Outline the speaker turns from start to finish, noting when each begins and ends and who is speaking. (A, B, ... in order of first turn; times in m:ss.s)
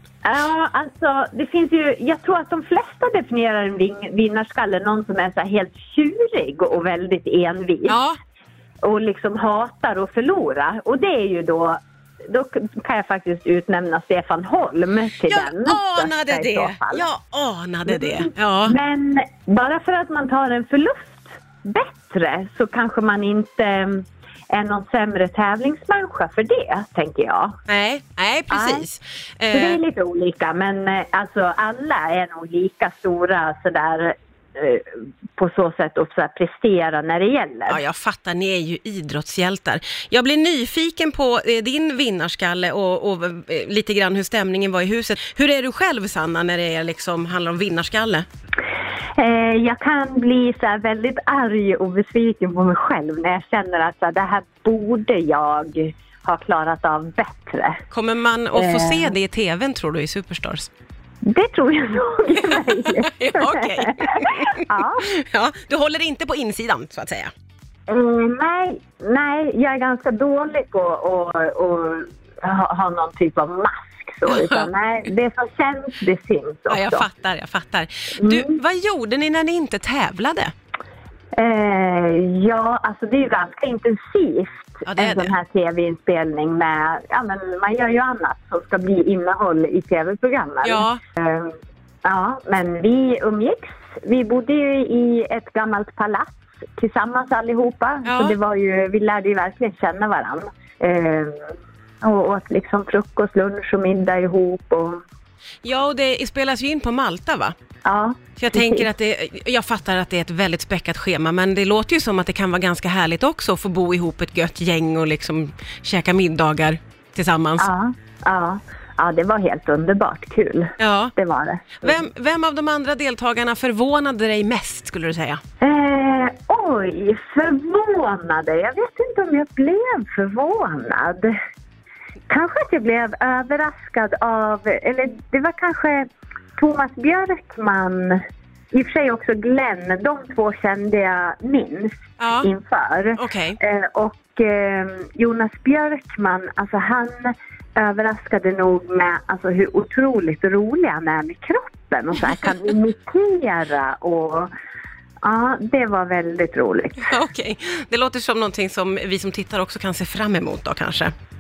0:00.2-0:08.0 A
0:07.9-0:08.2 B
0:08.8-0:17.1 A
0:15.3-0:18.8 B
0:17.9-0:27.6 A
0:27.7-0:29.8 B
0:28.5-0:28.9 A
0:29.5-0:37.8 A
0:37.7-0:48.3 B
0:49.2-0:57.8 A
0:57.9-1:00.7 B
0:58.6-0:59.1 A
1:01.2-1:05.1 A
1:03.1-1:07.3 B
1:07.9-1:17.1 A
1:16.7-1:20.5 B
1:18.2-1:18.5 A
1:21.4-1:31.5 A
1:24.9-1:25.3 B
1:30.6-1:31.0 B
1:32.0-1:41.5 A
1:38.1-1:38.4 B
1:42.0-1:45.0 A
1:45.6-1:47.6 B
1:47.8-1:48.9 A
1:48.4-1:57.7 B
1:57.6-2:02.0 A
2:00.8-2:01.1 B
2:01.8-2:05.4 B
2:05.6-2:11.4 A
2:12.3-2:18.2 A
2:18.7-2:34.5 A
2:22.2-2:22.5 B
2:23.2-2:23.6 B
2:35.2-2:37.1 A
2:37.0-2:41.1 B